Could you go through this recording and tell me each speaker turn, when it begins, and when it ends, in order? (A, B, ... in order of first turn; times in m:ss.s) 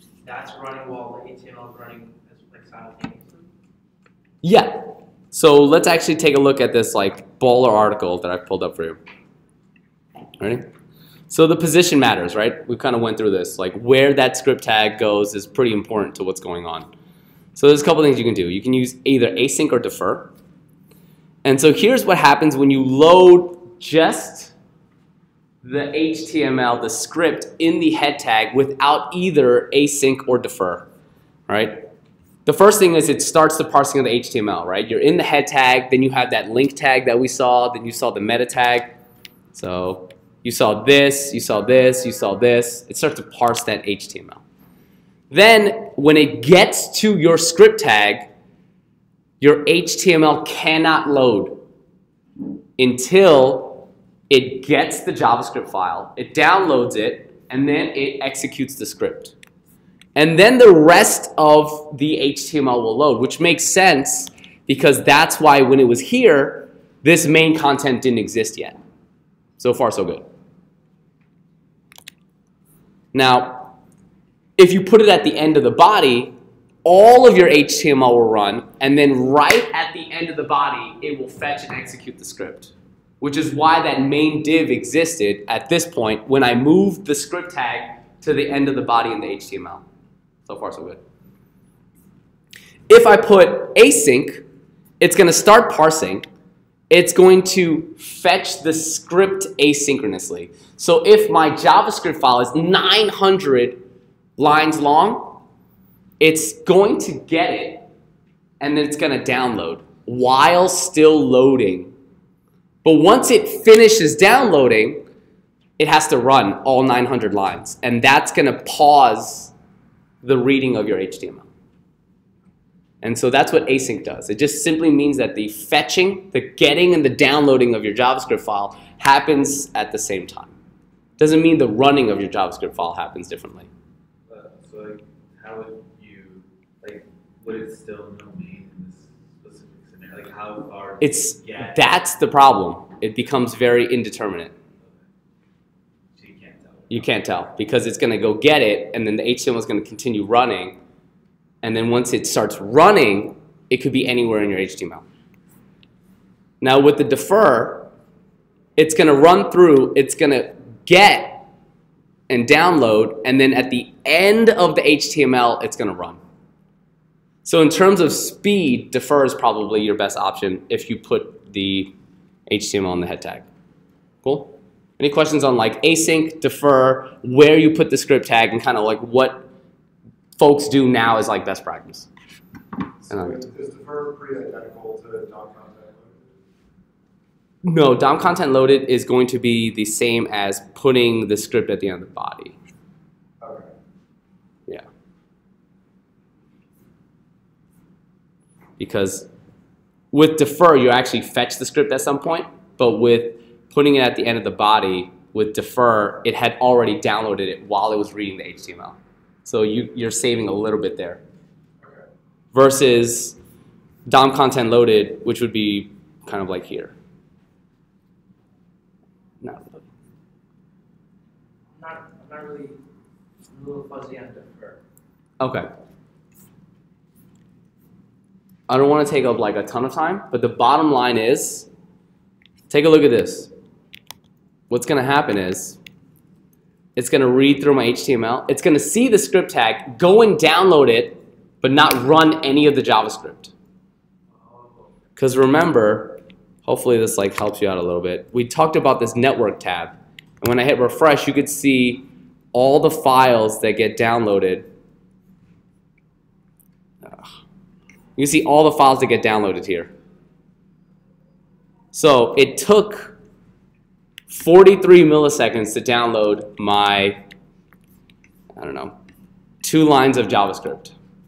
0:00.2-0:03.4 A
0:04.4-0:09.0 B
0:10.4-0:10.7 B
0:11.3-0:16.9 B
0:17.5-0:20.3 B
0:21.4-0:24.5 B
0:25.6-0:30.9 B
0:31.5-0:31.9 B
0:32.4-0:39.0 B
0:39.5-0:44.4 B
0:45.3-0:48.3 B
0:49.4-0:51.6 B
0:52.8-0:59.3 B
1:00.1-1:08.8 B
1:09.6-1:10.2 B
1:13.1-1:13.7 B
1:14.6-1:16.3 B
1:16.8-1:29.8 B
1:30.4-1:31.0 B
1:32.9-1:34.4 B
1:35.0-1:36.2 B
1:36.9-1:43.8 B
1:44.4-1:45.4 B
1:46.2-1:47.8 B
1:48.6-1:51.9 B
1:52.8-1:55.0 B
1:55.8-1:59.5 B
2:00.2-2:01.5 B
2:03.0-2:10.5 B
2:11.2-2:13.7 B
2:14.3-2:21.8 C
2:21.0-2:24.5 B
2:24.8-2:25.0 C
2:26.1-2:27.2 C
2:26.9-2:30.8 B
2:31.6-2:35.0 B
2:36.6-2:37.9 B
2:38.8-2:41.5 B
2:42.3-2:46.2 B
2:47.4-2:51.9 B
2:52.5-2:53.4 B
2:54.2-2:59.5 B
3:00.4-3:02.1 B
3:03.1-3:06.3 D
3:03.1-3:03.4 B
3:07.6-3:12.5 B
3:13.4-3:13.7 D
3:18.8-3:19.3 B
3:20.1-3:31.2 B
3:32.5-3:33.4 B
3:34.0-3:36.9 B
3:39.4-3:39.8 B
3:41.7-3:42.8 A
3:43.5-3:44.8 A
3:45.4-3:45.7 B
3:48.7-3:51.7 B
3:52.7-3:53.5 B
3:54.7-3:55.8 B
3:57.0-4:03.5 B
4:04.4-4:04.9 C
4:05.2-4:14.7 B
4:17.0-4:17.3 B
4:18.2-4:19.9 B
4:21.9-4:23.2 B
4:24.3-4:27.2 B
4:28.6-4:28.9 B
4:29.6-4:30.9 B